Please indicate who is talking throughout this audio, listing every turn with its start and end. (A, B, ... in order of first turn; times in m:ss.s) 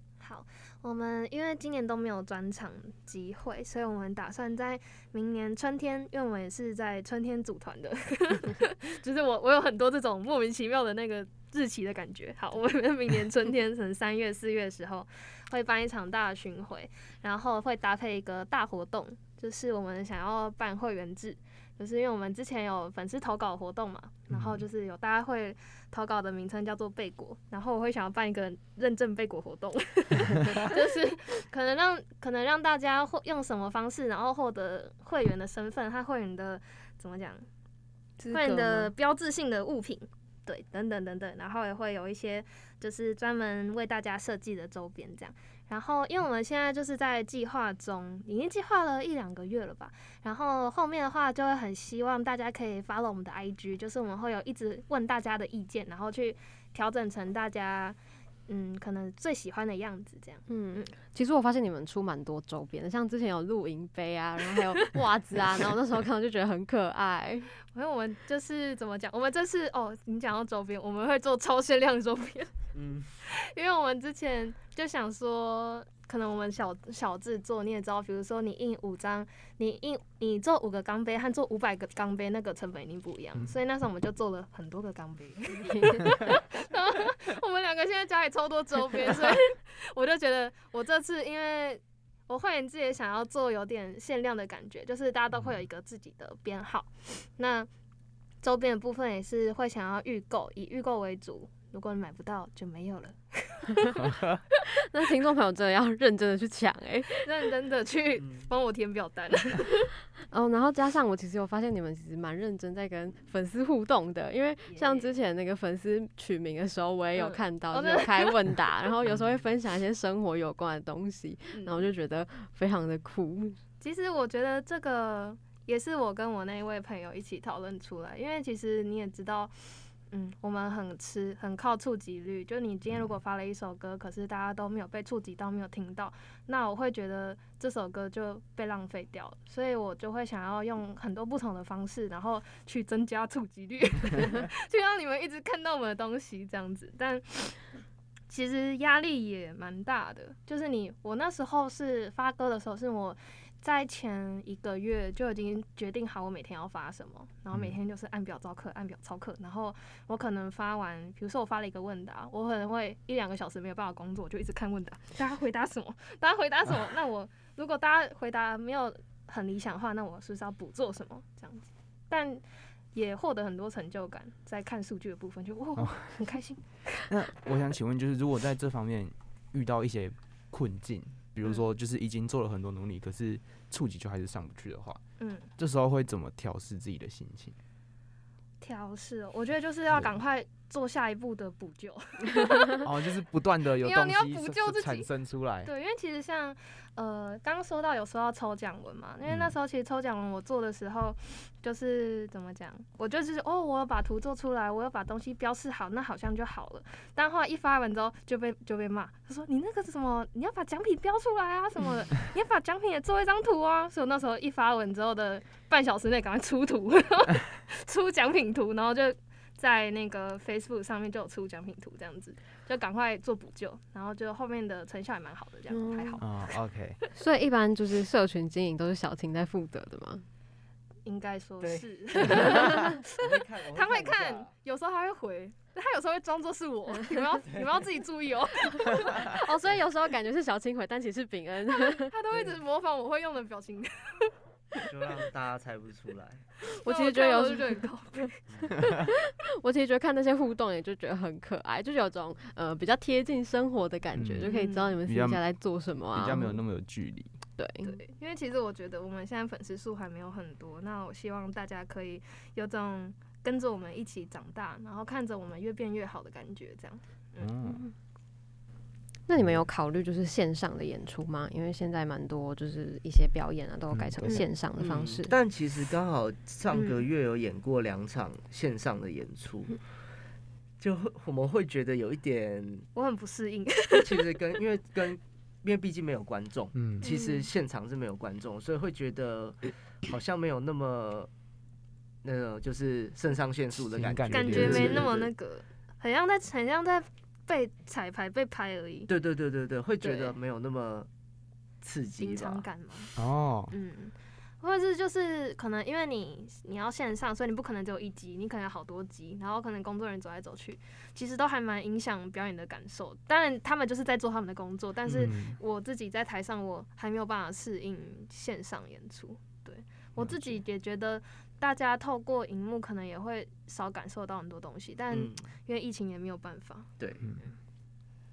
0:00.2-0:37.4 A
0:24.3-0:24.6 B
0:38.2-0:38.9 C
0:38.3-1:00.9 A
1:00.5-1:07.5 C
1:07.7-1:12.5 A
1:12.7-1:13.1 D
1:13.2-1:37.7 A
1:25.6-1:26.1 C
1:38.4-1:44.1 A
1:44.0-1:44.4 B
1:44.7-1:47.2 C
1:47.2-1:49.9 A
1:48.2-1:48.5 D
1:50.3-2:03.6 C
1:54.7-1:55.1 A
1:57.2-1:58.6 A
2:01.5-2:01.8 A
2:03.8-2:09.5 A
2:10.1-2:27.6 A
2:28.3-2:57.1 A
2:55.8-2:56.1 B
2:57.1-3:05.0 B
3:05.2-3:05.5 A
3:05.6-3:07.5 B
3:08.6-3:12.9 A
3:12.8-3:15.7 B
3:13.8-3:15.1 A
3:15.6-3:46.4 A
3:45.7-3:46.2 C
3:46.2-3:47.0 B
3:47.1-3:50.2 C
3:51.0-3:59.4 A
3:51.6-3:54.5 D
3:57.0-3:57.3 C
3:57.4-3:57.8 D
3:58.9-4:02.1 C
4:01.7-4:04.3 A
4:04.8-4:06.4 D
4:06.7-4:08.5 A
4:06.7-4:07.8 C
4:08.8-4:16.6 C
4:14.1-4:14.5 B
4:14.5-4:15.0 A
4:15.0-4:15.4 B
4:16.1-4:17.4 B
4:17.6-4:18.0 C
4:17.8-4:27.5 A
4:27.4-4:27.8 B
4:27.6-4:27.9 C
4:29.3-4:35.3 C
4:29.4-4:29.6 B
4:33.9-4:34.4 B
4:34.8-4:39.8 D
4:36.7-4:37.1 A
4:40.8-4:42.8 D
4:42.9-4:44.4 A
4:44.0-4:51.3 D
4:46.7-4:47.1 B
4:47.0-4:47.5 A
4:52.2-4:55.3 D
4:53.8-4:55.1 B
4:54.3-4:59.1 A
4:59.1-5:01.1 D
5:00.0-5:00.4 A
5:01.8-5:02.6 D
5:02.2-5:03.2 A
5:03.2-5:03.7 B
5:03.7-5:26.9 A
5:15.1-5:15.6 B
5:20.2-5:20.6 B
5:25.1-5:25.4 D
5:27.0-5:27.2 D